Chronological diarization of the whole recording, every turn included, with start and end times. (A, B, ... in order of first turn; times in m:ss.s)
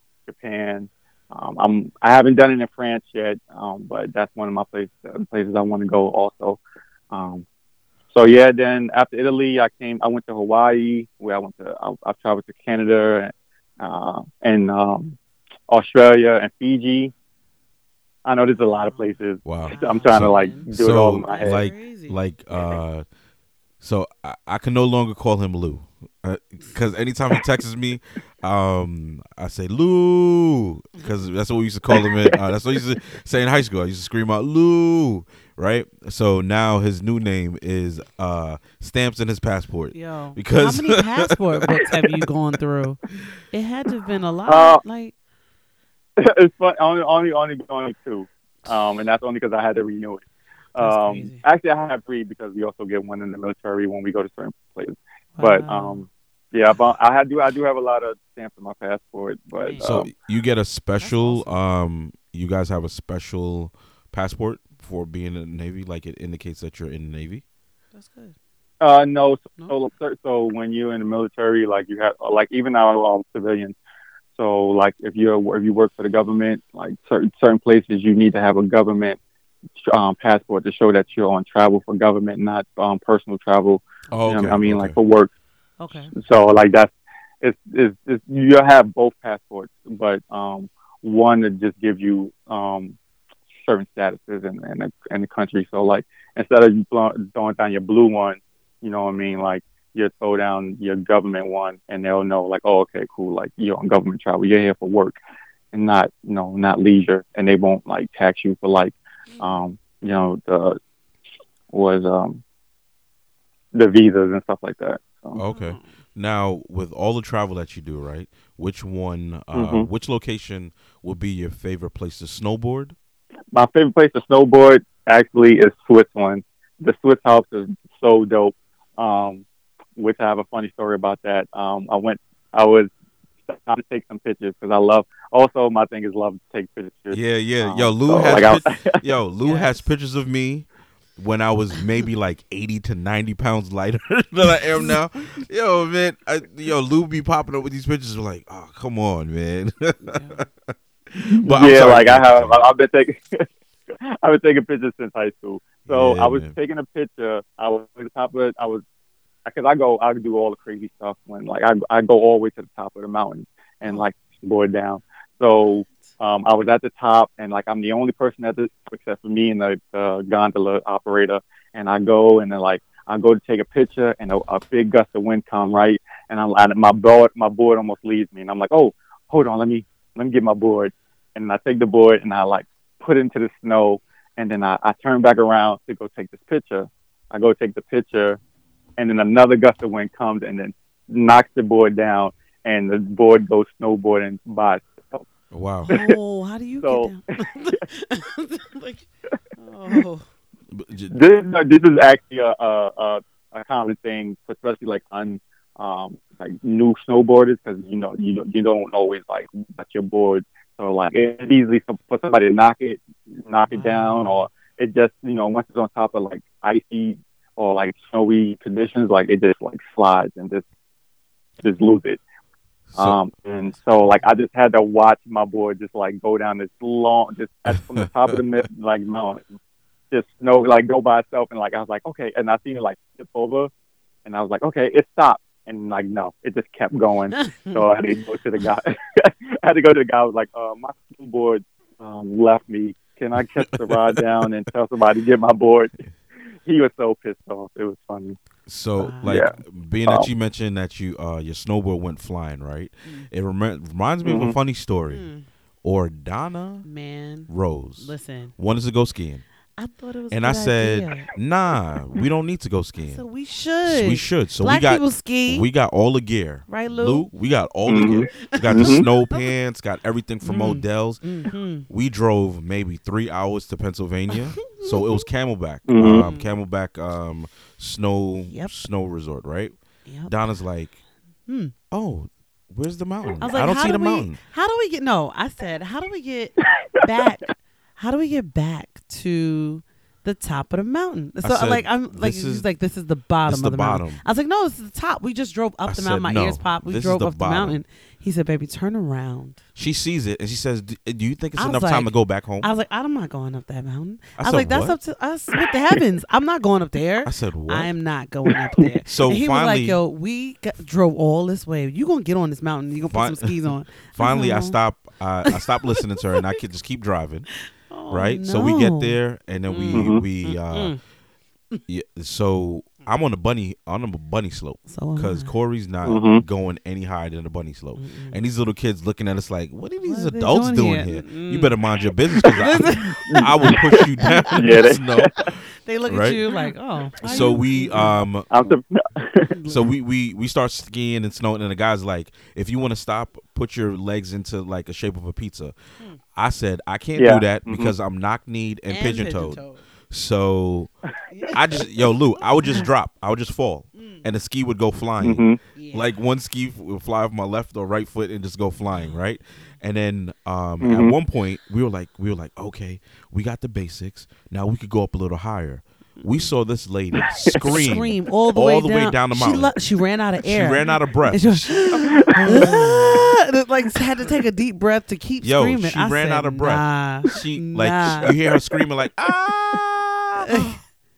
0:00.3-0:06.6 A
0:07.1-0:07.4 A
0:08.1-0:15.2 A
0:15.7-0:17.1 A
0:18.2-0:21.7 A
0:18.8-0:19.1 B
0:19.4-0:23.0 C
0:19.6-0:22.2 B
0:23.8-0:42.2 C
0:39.9-0:45.1 B
0:44.4-0:44.8 A
0:46.2-1:00.1 A
0:50.8-0:51.4 B
0:55.4-0:56.0 B
0:59.6-0:59.9 B
0:59.8-1:07.4 C
1:01.0-1:01.6 B
1:07.9-1:08.4 B
1:08.8-1:13.8 A
1:14.3-1:19.2 A
1:19.8-1:25.3 A
1:24.1-1:25.0 C
1:25.8-1:26.1 B
1:26.1-1:33.0 A
1:33.5-1:45.2 A
1:45.7-1:50.8 A
1:49.3-1:49.6 B
1:51.7-1:52.4 A
1:53.7-1:55.4 A
1:55.3-2:03.0 C
1:55.5-1:55.9 B
1:59.5-1:59.9 A
2:03.5-2:09.4 A
2:10.0-2:12.9 A
2:13.4-2:19.0 A
2:17.1-2:20.6 C
2:19.4-2:19.8 B
2:21.2-2:32.6 C
2:30.0-2:30.4 B
2:31.4-2:38.8 A
2:35.8-2:36.6 C
2:39.4-3:08.4 A
3:09.0-3:15.2 A
3:15.5-3:15.9 C
3:15.9-3:16.2 A
3:15.9-3:19.1 B
3:16.8-3:17.1 A
3:19.6-3:20.3 B
3:20.7-3:21.1 C
3:21.1-3:40.6 A
3:33.7-3:34.4 B
3:41.6-3:42.2 A
3:42.9-3:43.2 C
3:43.0-3:49.6 A
3:47.7-3:48.4 C
3:50.1-3:53.7 A
3:54.2-4:05.9 A
3:57.3-3:57.8 B
4:03.6-4:04.5 C
4:06.6-4:08.4 A
4:08.6-4:15.2 C
4:09.0-4:09.4 B
4:09.2-4:09.5 A
4:14.2-4:14.6 A
4:15.1-4:15.5 B
4:15.8-4:16.9 C
4:16.8-4:18.5 B
4:17.5-4:19.4 C
4:19.8-4:21.3 B
4:20.3-4:23.2 C
4:23.0-4:25.6 B
4:23.8-4:31.3 C
4:26.7-4:27.3 B
4:27.9-4:29.0 A
4:28.3-4:29.4 B
4:30.4-4:31.9 B
4:31.9-4:39.7 C
4:34.3-4:35.2 B
4:35.9-4:36.3 A
4:36.0-4:36.5 B
4:40.0-4:40.3 B
4:40.2-4:41.0 C
4:41.5-4:41.7 B
4:41.9-4:44.4 C
4:43.4-4:59.6 B
4:46.8-4:47.1 A
4:51.4-4:52.6 C
4:53.4-4:54.2 C
4:55.9-4:57.8 C
4:59.7-5:02.7 C
5:01.6-5:14.8 B
5:04.4-5:05.0 C
5:07.2-5:07.9 C
5:08.5-5:09.0 A
5:09.0-5:10.0 C
5:13.0-5:17.5 C
5:15.5-5:16.6 B
5:17.9-5:21.0 B
5:18.1-5:21.0 C
5:19.9-5:20.2 A
5:21.9-5:36.4 C
5:24.9-5:25.5 B
5:26.0-5:26.4 A
5:28.0-5:28.4 B
5:30.0-5:35.0 B
5:33.2-5:34.0 A
5:34.5-5:35.3 A
5:35.8-5:38.2 B
5:37.2-5:38.5 C
5:38.5-5:39.5 A
5:39.5-5:39.9 B
5:39.6-5:45.8 C
5:46.3-5:50.9 C
5:47.2-5:47.9 A
5:48.9-5:49.8 B
5:51.3-5:52.8 B
5:51.5-6:09.7 C
5:53.9-5:54.2 B
5:55.2-5:55.6 A
5:55.7-5:56.2 B
5:58.9-5:59.2 B
6:00.8-6:01.1 A
6:06.2-6:06.5 B
6:07.3-6:07.8 A
6:07.5-6:18.3 B
6:10.4-6:13.3 C
6:12.4-6:13.2 A
6:15.4-6:20.8 C
6:20.4-6:20.8 B